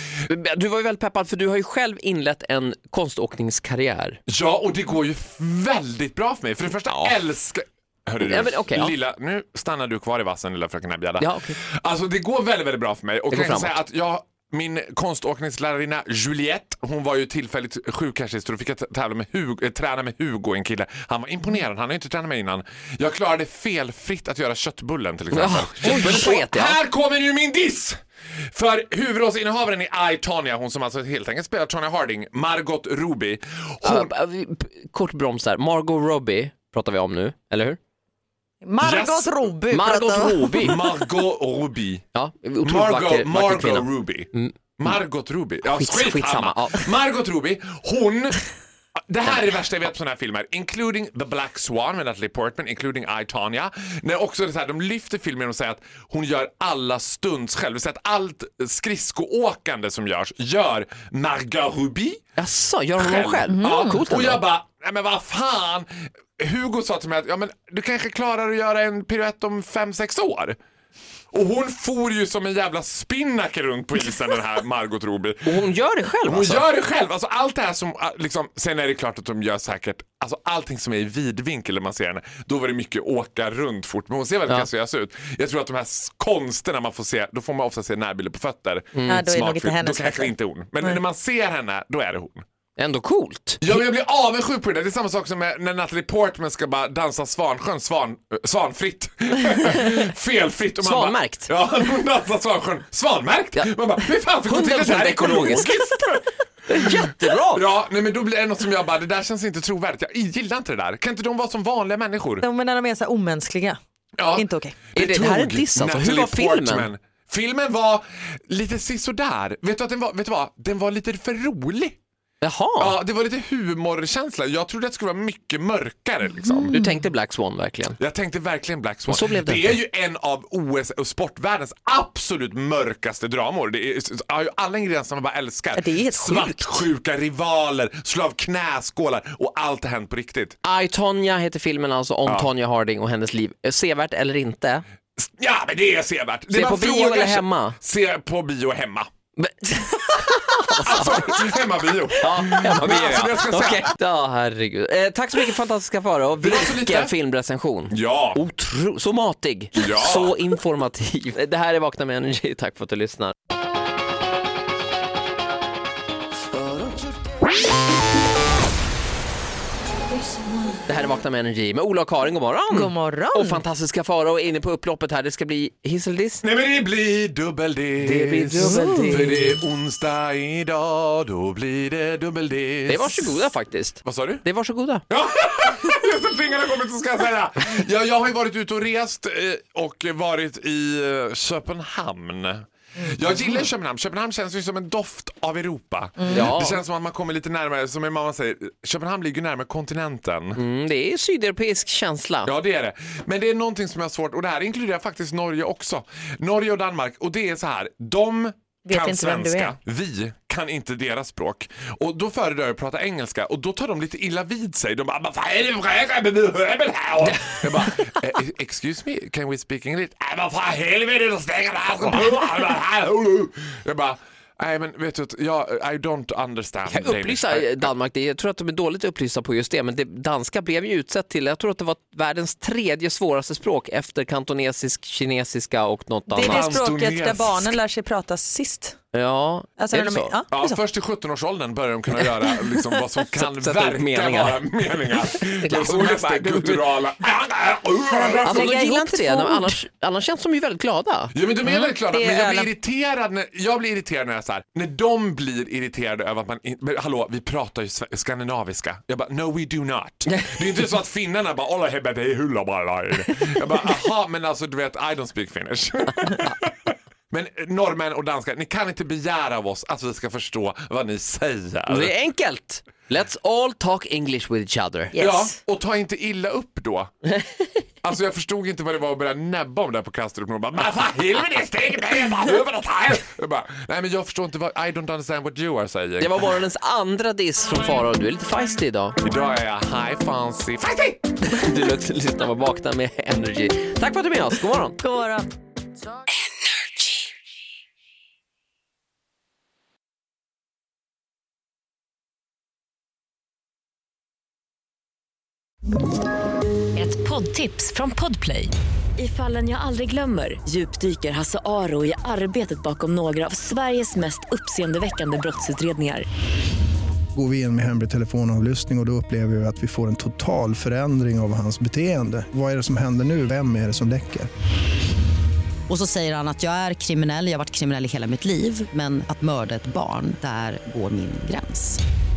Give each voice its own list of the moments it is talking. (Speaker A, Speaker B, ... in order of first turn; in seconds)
Speaker A: 0.3-4.2, 6.9-7.2, 8.2-8.9, 11.2-11.6, 13.3-13.8, 25.3-26.8, 33.8-37.8, 39.7-40.8, 42.1-45.0, 45.6-46.9, 62.4-64.4, 75.4-76.7, 88.9-89.3, 92.8-93.8, 100.8-101.5, 104.4-105.8, 106.7-107.6, 114.9-116.9, 122.4-123.0, 126.7-128.0, 129.1-129.8, 140.6-144.8, 146.5-147.8, 149.4-151.4, 152.2-163.3, 170.8-176.4, 178.0-179.4, 182.9-185.0, 196.3-196.8, 200.5-202.5, 217.2-217.9, 226.8-236.8, 239.1-240.3, 243.3-246.8, 248.4-251.3, 271.9-275.1, 286.2-289.1, 291.4-295.0
Speaker B: 4.3-28.0, 28.5-34.1, 38.8-39.3, 40.6-42.0, 42.6-48.4, 49.1-62.2, 63.0-70.6, 71.3-75.7, 76.2-92.4, 93.6-106.2, 107.5-112.4, 114.2-122.0, 122.8-126.8, 128.0-140.6, 145.2-149.1, 150.8-153.9, 156.4-157.1, 157.9-158.4, 159.7-160.3, 176.4-183.3, 184.0-184.4, 185.1-200.6, 202.4-227.9, 236.4-237.8, 240.5-248.8, 251.3-272.1, 275.1-277.1, 278.0-286.4, 289.2-291.2
Speaker C: 38.6-41.1, 63.5-64.1, 89.1-91.0, 112.4-113.8, 114.3-114.8, 126.3-126.9, 135.7-136.9, 172.7-173.6, 178.6-179.6, 208.8-209.7, 236.3-238.9, 239.8-240.8, 248.0-249.8, 251.6-252.7, 275.1-275.6, 295.0-295.5
Speaker D: 306.9-316.3
Speaker E: 317.3-324.5
Speaker F: 325.9-332.0